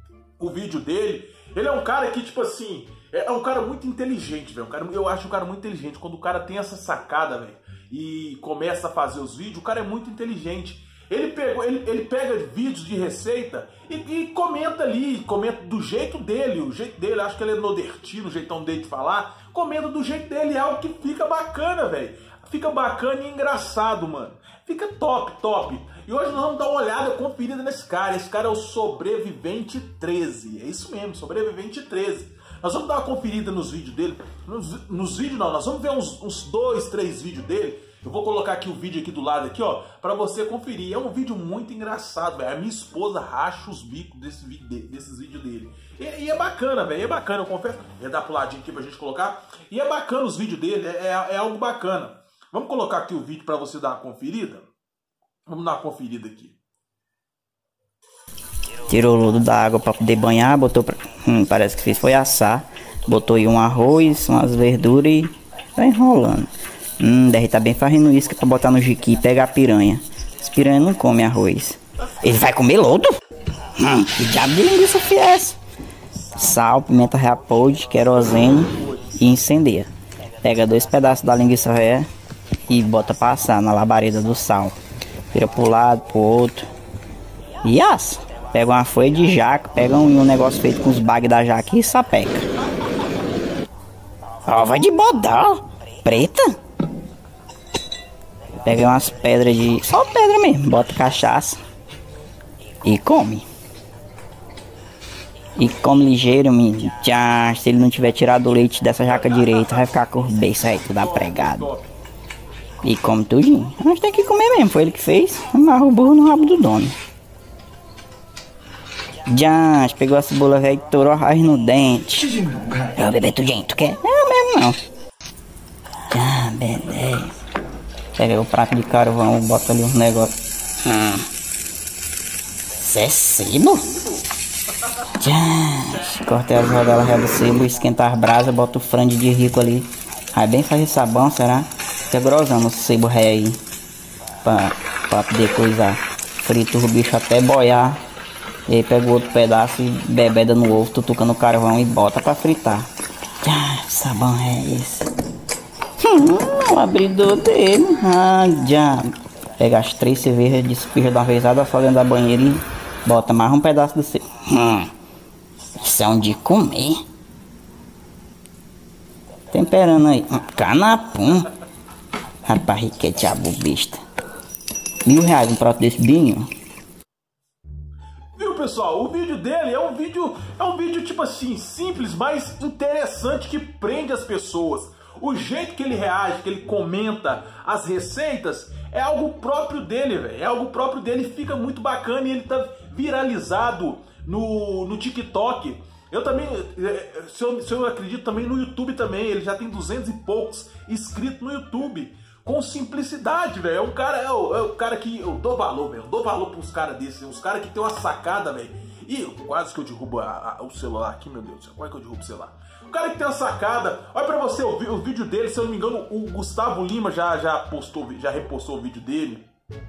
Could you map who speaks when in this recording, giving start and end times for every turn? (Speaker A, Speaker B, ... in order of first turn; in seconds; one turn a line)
Speaker A: 0.4-54.7
Speaker A: 55.5-56.6
Speaker B: 58.9-66.5
Speaker B: 67.0-73.2
Speaker B: 73.8-75.6
Speaker B: 76.4-79.9
Speaker A: 78.5-79.2
Speaker B: 80.4-82.1
Speaker B: 82.7-84.8
Speaker B: 85.3-86.7
Speaker B: 87.7-92.5
Speaker B: 94.5-96.5
Speaker B: 98.6-101.6
Speaker B: 102.8-103.5
Speaker B: 105.6-111.7
Speaker A: 109.2-110.0
Speaker A: 110.6-111.9
Speaker B: 112.8-117.0
Speaker B: 119.3-124.8
Speaker B: 126.1-127.3
Speaker B: 128.2-131.3
Speaker B: 132.8-133.9
Speaker A: 133.9-134.2
Speaker B: 135.2-143.6
Speaker B: 144.4-148.0
Speaker B: 148.7-152.9
Speaker B: 153.4-155.1
Speaker B: 156.0-164.9
Speaker B: 165.8-167.0
Speaker B: 169.5-171.5
Speaker B: 172.5-174.0
Speaker B: 175.1-176.5
Speaker A: 178.3-219.5